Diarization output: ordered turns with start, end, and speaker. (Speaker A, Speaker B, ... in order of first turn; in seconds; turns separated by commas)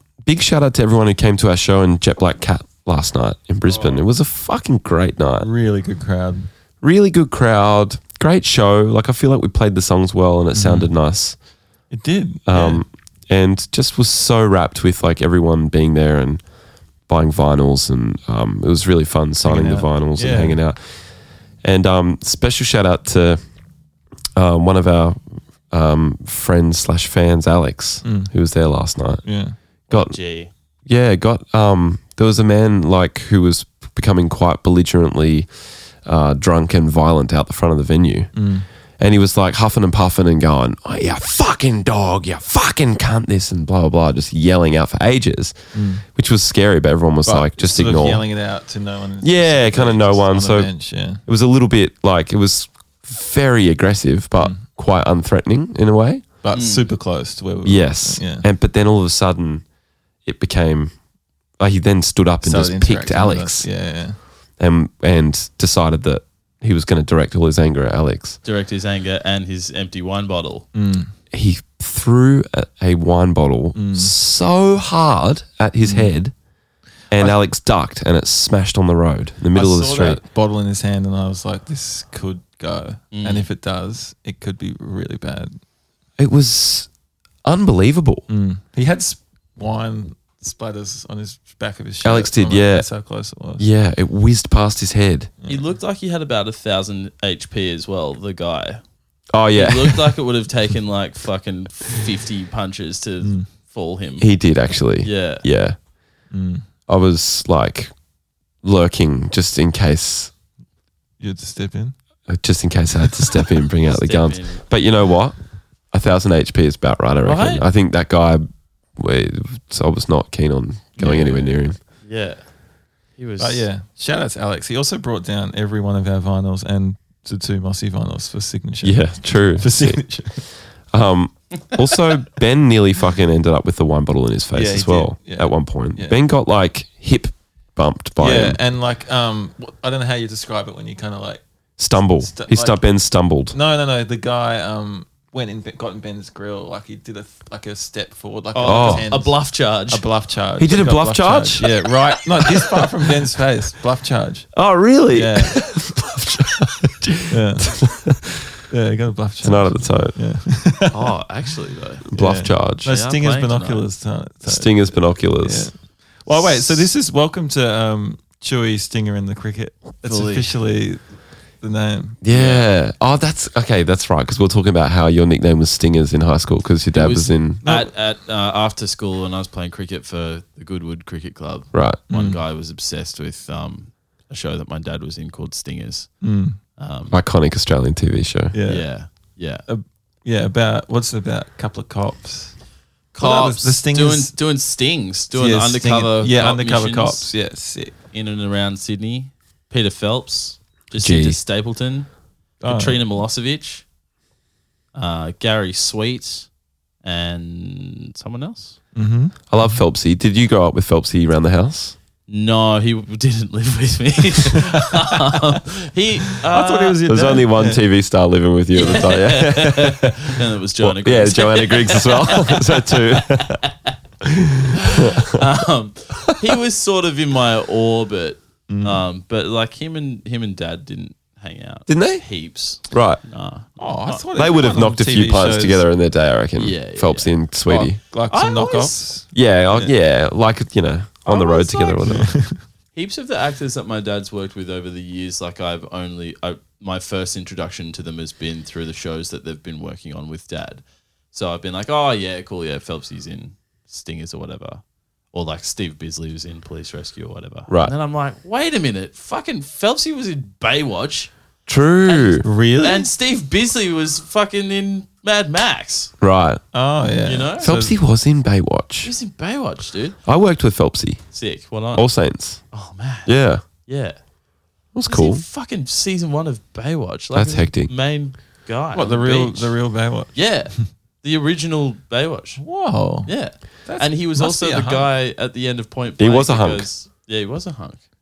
Speaker A: 0.2-5.5, Speaker B: 3.6-4.1, Speaker B: 5.4-6.5, Speaker A: 6.8-11.4, Speaker B: 10.5-10.9, Speaker B: 11.9-12.8, Speaker A: 12.5-16.4, Speaker A: 17.1-20.8, Speaker B: 19.4-20.6, Speaker A: 21.6-23.4, Speaker A: 24.4-29.2, Speaker B: 28.0-28.3, Speaker B: 29.2-29.5, Speaker A: 29.9-30.2, Speaker C: 29.9-30.5, Speaker A: 30.9-35.5, Speaker A: 36.0-38.3, Speaker B: 38.3-38.7, Speaker A: 39.0-45.6, Speaker B: 45.7-46.0, Speaker A: 46.1-48.2, Speaker B: 47.2-51.2, Speaker A: 49.2-56.2, Speaker B: 54.4-54.7, Speaker B: 56.4-58.5, Speaker C: 56.5-57.0, Speaker A: 57.6-59.6, Speaker A: 60.2-60.9, Speaker A: 61.6-63.8, Speaker B: 62.4-64.2, Speaker A: 64.6-68.4, Speaker C: 68.4-70.7, Speaker B: 70.7-71.1, Speaker A: 71.3-76.3, Speaker B: 73.7-74.1, Speaker B: 75.8-76.2, Speaker A: 77.1-80.2, Speaker B: 79.5-85.5, Speaker C: 83.1-83.5, Speaker A: 86.2-86.9, Speaker A: 87.4-88.3, Speaker B: 88.3-93.7, Speaker A: 92.0-92.9, Speaker A: 93.6-95.3, Speaker B: 95.4-95.8, Speaker C: 95.5-98.8, Speaker A: 99.3-100.1, Speaker C: 99.5-104.3, Speaker B: 103.2-103.5, Speaker A: 104.2-105.8, Speaker C: 105.0-105.4, Speaker B: 106.3-106.6, Speaker A: 106.9-107.9, Speaker A: 108.6-110.3, Speaker B: 111.2-112.0, Speaker A: 112.3-115.4, Speaker C: 113.8-114.6, Speaker A: 115.9-121.8, Speaker C: 117.2-117.7, Speaker B: 121.0-121.7, Speaker C: 122.0-122.4, Speaker C: 123.2-123.7, Speaker B: 123.4-130.5, Speaker A: 128.8-130.0, Speaker A: 130.9-138.6, Speaker B: 134.5-136.2, Speaker B: 138.2-141.4, Speaker A: 141.8-143.6, Speaker B: 142.0-142.8, Speaker B: 143.5-154.5, Speaker C: 148.5-150.1, Speaker A: 148.6-149.1, Speaker A: 150.6-153.2, Speaker A: 154.5-158.5, Speaker B: 155.1-155.6, Speaker B: 157.3-157.7, Speaker B: 158.7-161.1, Speaker A: 159.4-160.3, Speaker C: 160.9-162.0, Speaker A: 162.1-162.9, Speaker B: 162.1-171.0, Speaker C: 162.8-163.8, Speaker A: 164.4-165.7, Speaker A: 166.3-166.8, Speaker C: 170.1-170.5, Speaker B: 171.6-172.2, Speaker A: 172.2-177.6, Speaker C: 172.3-172.7, Speaker C: 176.9-186.1, Speaker B: 177.6-177.9, Speaker A: 181.7-182.0, Speaker B: 182.1-182.4, Speaker B: 186.2-186.6, Speaker C: 186.8-187.2, Speaker A: 187.1-188.6, Speaker B: 188.5-188.9, Speaker C: 188.7-189.6, Speaker B: 189.7-192.6, Speaker C: 193.1-197.3, Speaker B: 193.2-194.4, Speaker B: 195.3-198.0, Speaker C: 198.1-202.1, Speaker A: 200.9-201.4, Speaker B: 202.6-203.0, Speaker C: 202.6-203.8, Speaker C: 204.9-206.5, Speaker C: 207.0-208.8, Speaker B: 208.9-209.8, Speaker A: 209.5-211.9, Speaker C: 212.3-217.1, Speaker B: 216.5-217.8, Speaker A: 217.0-223.6, Speaker C: 218.7-223.9, Speaker A: 224.2-225.3, Speaker C: 224.7-234.3, Speaker B: 228.7-229.1, Speaker A: 231.9-233.2, Speaker B: 233.8-235.9, Speaker A: 234.3-238.0, Speaker C: 236.6-237.4, Speaker B: 237.7-239.9, Speaker C: 238.3-239.1, Speaker A: 239.3-242.3, Speaker C: 241.3-242.1, Speaker B: 242.0-242.6, Speaker C: 242.9-261.3, Speaker A: 257.7-257.9, Speaker A: 261.6-262.5, Speaker C: 262.0-266.1, Speaker B: 262.4-263.1, Speaker A: 266.2-266.6, Speaker B: 266.7-268.0, Speaker C: 267.2-267.7, Speaker A: 267.6-269.1, Speaker C: 269.0-270.2, Speaker A: 270.2-272.6, Speaker C: 271.3-272.1, Speaker C: 272.7-273.3, Speaker A: 273.2-273.6, Speaker C: 273.9-274.2, Speaker A: 274.9-275.4, Speaker C: 275.1-279.8, Speaker A: 277.3-277.9, Speaker B: 278.9-280.9, Speaker C: 280.3-282.6, Speaker B: 282.6-285.1, Speaker C: 283.2-288.0, Speaker A: 286.2-286.9